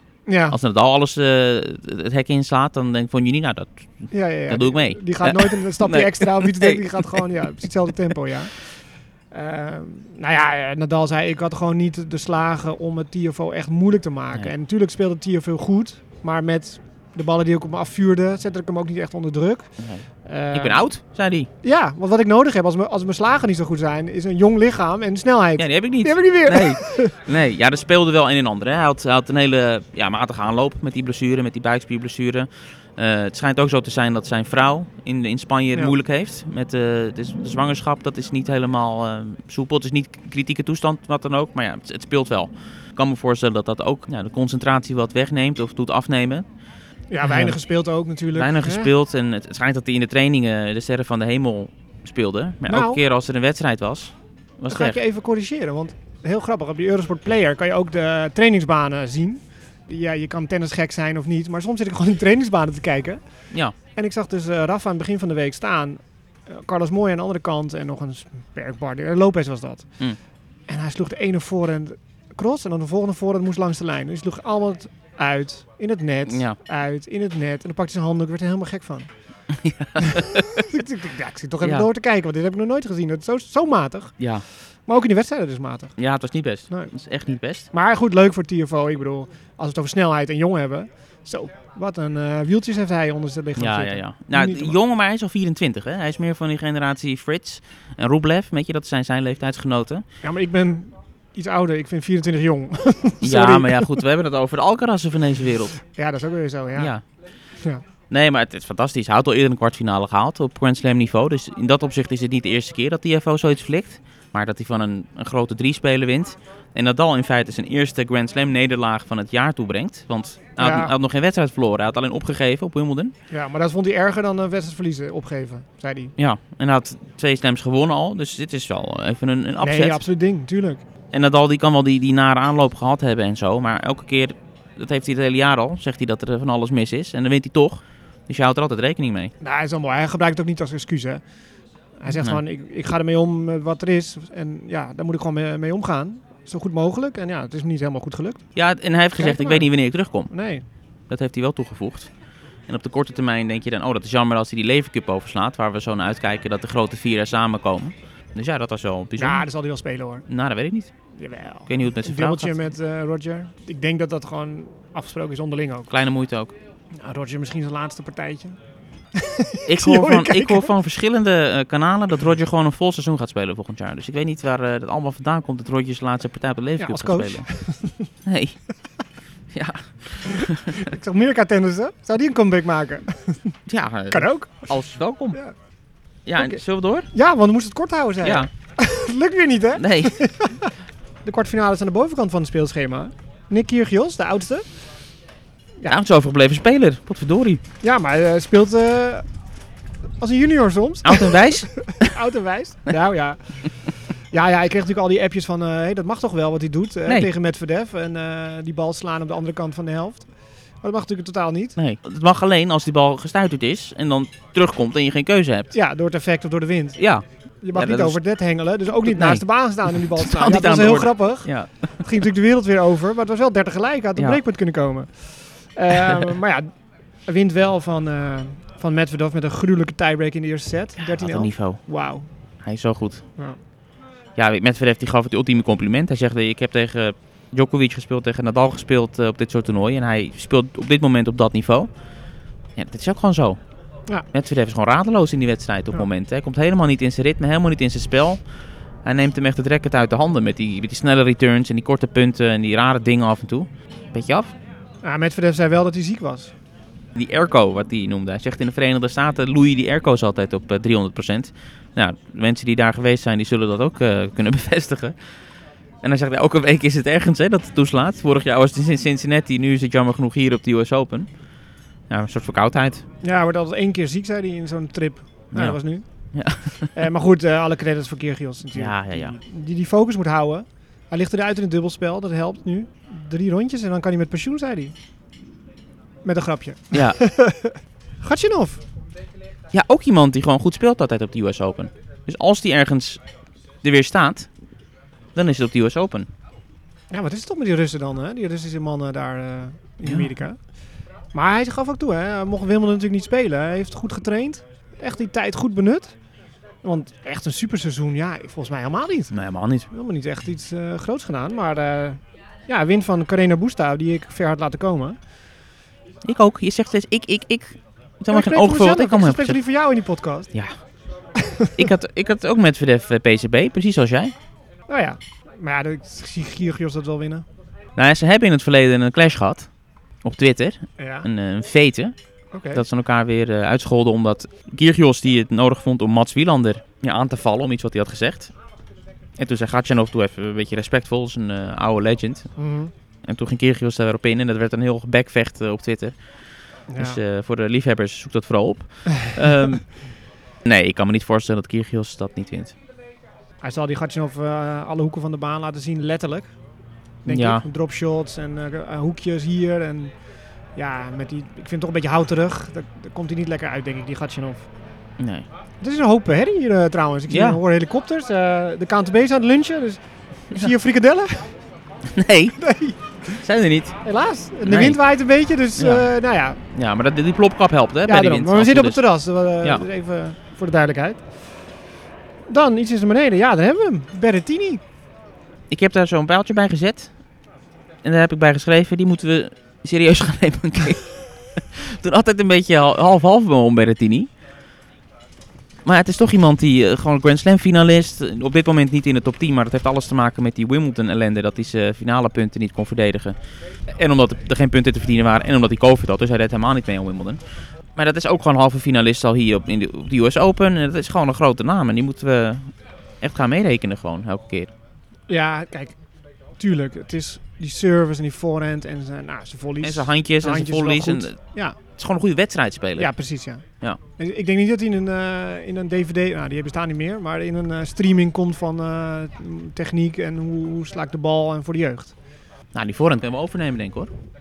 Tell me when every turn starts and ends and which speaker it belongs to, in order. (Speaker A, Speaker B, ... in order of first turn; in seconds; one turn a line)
Speaker A: 0.3-0.6
Speaker B: 0.5-7.2
Speaker A: 4.1-8.7
Speaker A: 9.3-19.7
Speaker B: 19.8-21.5
Speaker A: 20.2-20.9
Speaker A: 21.6-27.1
Speaker B: 25.6-46.4
Speaker A: 47.1-48.9
Speaker B: 47.2-47.6
Speaker B: 48.3-55.0
Speaker A: 52.7-53.0
Speaker A: 54.7-63.2
Speaker A: 64.0-70.0
Speaker A: 70.7-79.1
Speaker B: 76.2-76.6
Speaker B: 79.5-80.7
Speaker A: 80.0-84.2
Speaker B: 81.6-81.9
Speaker B: 84.2-84.4
Speaker A: 84.8-86.0
Speaker B: 86.0-87.7
Speaker A: 87.7-94.7
Speaker B: 93.6-100.0
Speaker A: 100.2-104.0
Speaker B: 103.2-105.7
Speaker A: 105.9-106.9
Speaker B: 106.8-107.0
Speaker B: 108.1-123.1
Speaker A: 120.6-120.9
Speaker A: 123.3-126.1
Speaker B: 126.2-130.0
Speaker A: 129.6-130.8
Speaker B: 131.1-139.3
Speaker A: 139.4-141.2
Speaker A: 142.0-148.4
Speaker B: 142.1-142.4
Speaker B: 148.5-150.3
Speaker A: 149.2-149.7
Speaker A: 150.3-150.6
Speaker B: 151.1-152.1
Speaker B: 152.7-159.4
Speaker A: 159.2-160.2
Speaker B: 160.3-160.9
Speaker A: 161.2-165.9
Speaker B: 161.7-162.5
Speaker B: 165.9-166.5
Speaker A: 166.9-168.6
Speaker A: 169.1-170.7
Speaker B: 169.7-177.5
Speaker A: 176.8-178.1
Speaker B: 178.2-178.6
Speaker B: 179.5-180.8
Speaker A: 180.2-183.5
Speaker B: 183.7-185.4
Speaker A: 184.1-184.7
Speaker B: 186.2-187.1
Speaker A: 187.1-190.7
Speaker B: 188.2-188.5
Speaker B: 189.8-190.3
Speaker A: 191.2-194.6
Speaker B: 195.9-197.6
Speaker A: 197.8-199.2
Speaker A: 200.2-210.3
Speaker B: 201.0-202.1
Speaker A: 210.8-211.8
Speaker B: 211.8-215.7
Speaker A: 215.7-217.0
Speaker B: 217.0-218.2
Speaker A: 217.6-226.7
Speaker B: 219.0-222.0
Speaker B: 226.0-226.3
Speaker A: 227.2-232.3
Speaker B: 231.0-231.8
Speaker B: 232.6-233.2
Speaker B: 234.4-241.9
Speaker B: 242.8-243.6
Speaker B: 244.3-248.4
Speaker B: 249.0-254.5
Speaker A: 255.0-256.5
Speaker B: 257.1-265.1
Speaker B: 266.0-271.3
Speaker B: 272.1-273.0
Speaker A: 273.2-276.0
Speaker B: 275.5-275.8
Speaker B: 276.3-276.9
Speaker A: 276.9-284.9
Speaker B: 278.7-279.4
Speaker A: 286.2-288.8
Speaker B: 286.9-287.2
Speaker B: 289.7-293.2
Speaker B: 293.8-294.5
Speaker B: 295.3-296.3
Speaker A: 297.1-300.6
Speaker A: 301.3-306.1
Speaker A: 306.8-309.4
Speaker B: 309.3-309.9
Speaker A: 309.9-315.2
Speaker B: 316.2-319.6
Speaker A: 318.3-320.5
Speaker A: 321.4-321.8
Speaker B: 321.8-324.3
Speaker A: 324.9-327.4
Speaker B: 327.9-329.7
Speaker B: 330.2-332.1
Speaker A: 331.0-331.3
Speaker A: 332.5-332.8
Speaker B: 332.7-338.5
Speaker B: 339.4-342.5
Speaker A: 342.6-342.9
Speaker B: 343.2-346.1
Speaker A: 346.9-347.2
Speaker B: 347.0-349.9
Speaker A: 349.1-349.3
Speaker B: 350.6-352.7
Speaker A: 353.6-356.5
Speaker A: 357.2-360.1
Speaker B: 357.3-357.6
Speaker A: 360.8-364.7
Speaker B: 365.2-365.5
Speaker A: 365.8-371.5
Speaker B: 367.3-367.6
Speaker B: 372.0-372.6
Speaker A: 372.6-373.4
Speaker B: 373.4-373.9
Speaker A: 374.0-376.6
Speaker B: 374.6-375.0
Speaker B: 375.8-376.1
Speaker B: 376.7-379.0
Speaker A: 378.1-381.2
Speaker A: 382.5-384.8
Speaker B: 385.7-387.1
Speaker B: 388.0-394.3
Speaker B: 395.8-407.4
Speaker B: 407.9-414.7
Speaker A: 415.3-415.9
Speaker A: 416.6-421.8
Speaker B: 419.8-421.4
Speaker B: 422.0-423.1
Speaker A: 423.0-423.6
Speaker A: 424.2-432.1
Speaker B: 432.7-434.1